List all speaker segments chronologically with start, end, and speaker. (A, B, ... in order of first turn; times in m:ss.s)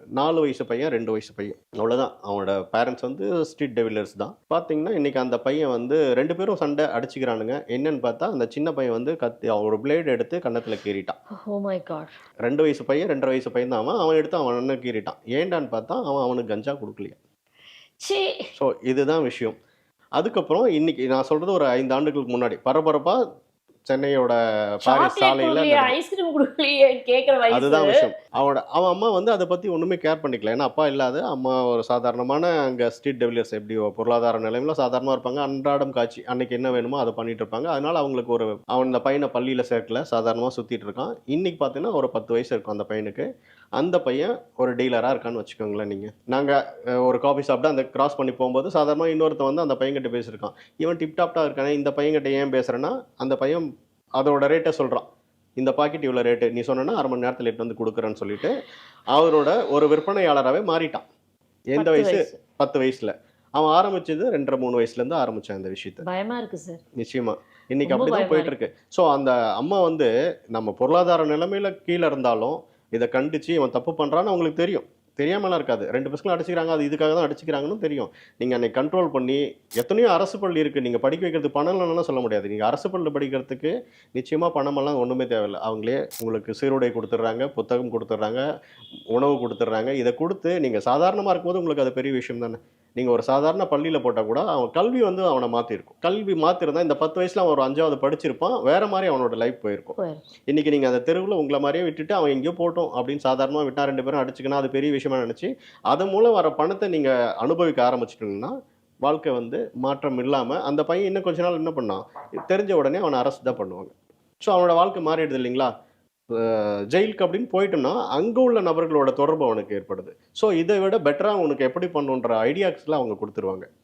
0:00.2-0:11.2 A
0:11.3-0:12.1 B
0:12.4-0:17.2 A
0:18.0-0:18.3 B
0:18.6-0:19.6 A
0:20.2-0:23.2 A
0:23.9-0:25.9 A
0:24.8-0:28.0 B
0:27.5-0:43.3 A
0:43.8-0:53.7 A
0:54.2-0:55.0 A
0:55.6-0:58.6 A
0:59.1-1:01.0 A
1:01.7-1:06.0 A
1:01.8-1:02.4 B
1:06.0-1:06.8 B
1:07.0-1:28.4 A
1:07.8-1:08.5 B
1:29.1-1:40.0 A
1:40.0-1:40.2 B
1:40.5-1:48.5 A
1:49.0-1:53.9 A
1:54.4-1:55.7 A
1:56.4-2:03.6 A